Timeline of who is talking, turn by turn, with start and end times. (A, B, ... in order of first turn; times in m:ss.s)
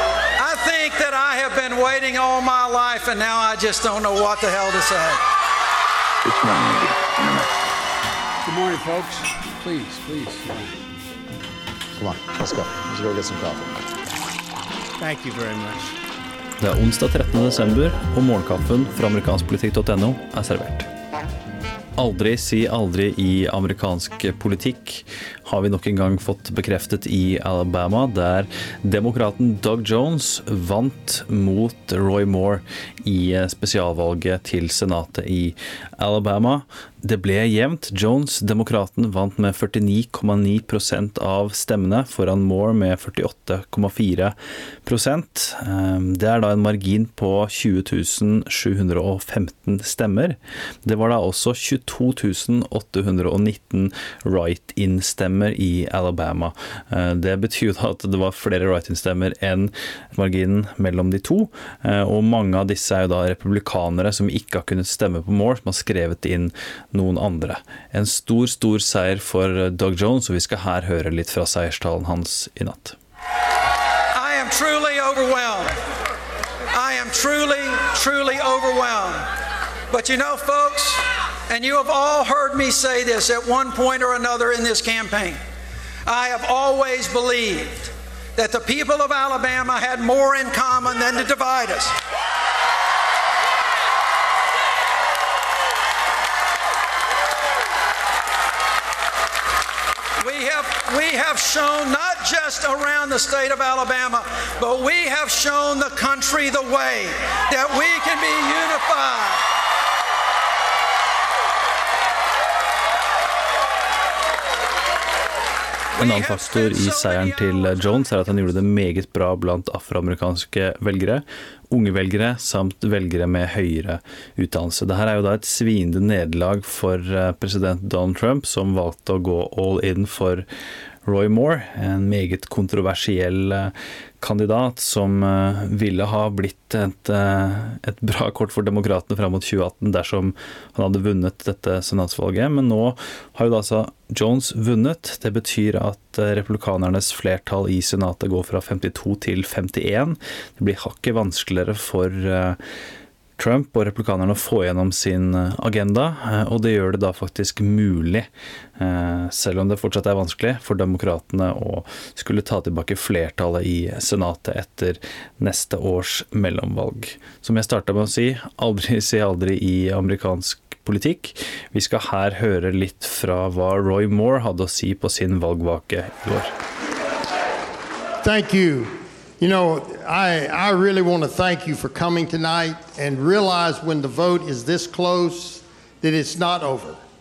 0:00.4-0:05.2 A
0:06.2-0:07.5 B
0:08.4-0:10.8 C
0:12.0-0:13.8 B
0:16.6-0:20.9 D
0:22.0-0:44.3 D
0:44.8-1:13.0 D
1:14.1-1:15.7 A
1:16.7-1:19.2 A
1:19.9-1:25.4 A
1:26.0-1:31.9 A
1:40.2-1:49.4 A
1:56.0-1:58.1 A
1:56.0-2:10.4 D
2:11.0-2:32.6 D
2:33.4-2:38.3 D
2:38.8-2:56.5 D
2:58.2-3:07.0 E